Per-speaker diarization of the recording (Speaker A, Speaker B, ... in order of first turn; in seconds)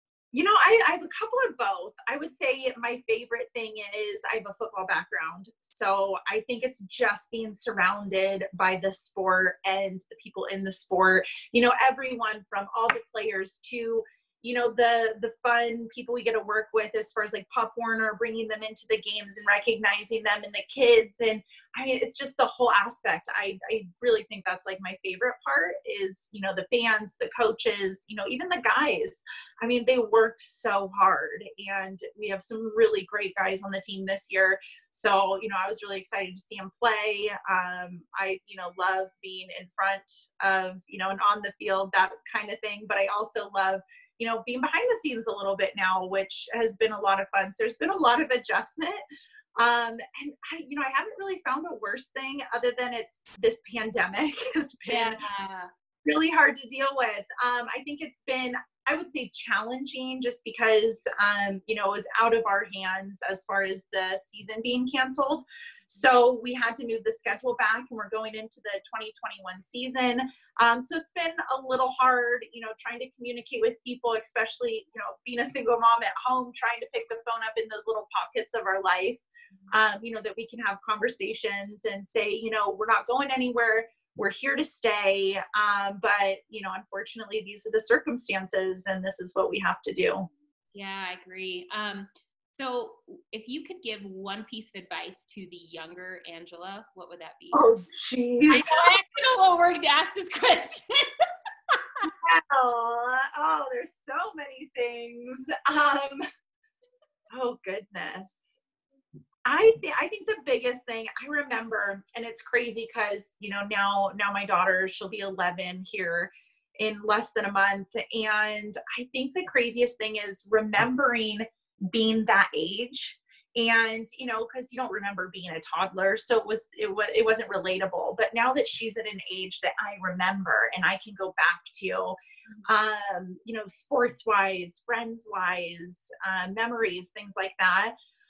Speaker A: 0.3-49.0, 49.6-55.2, 56.0-90.2, 97.5-98.9, 102.2-106.2, 107.3-108.6, 109.4-137.9
Speaker B: 54.9-55.7, 90.7-97.7, 98.5-101.0, 101.7-102.1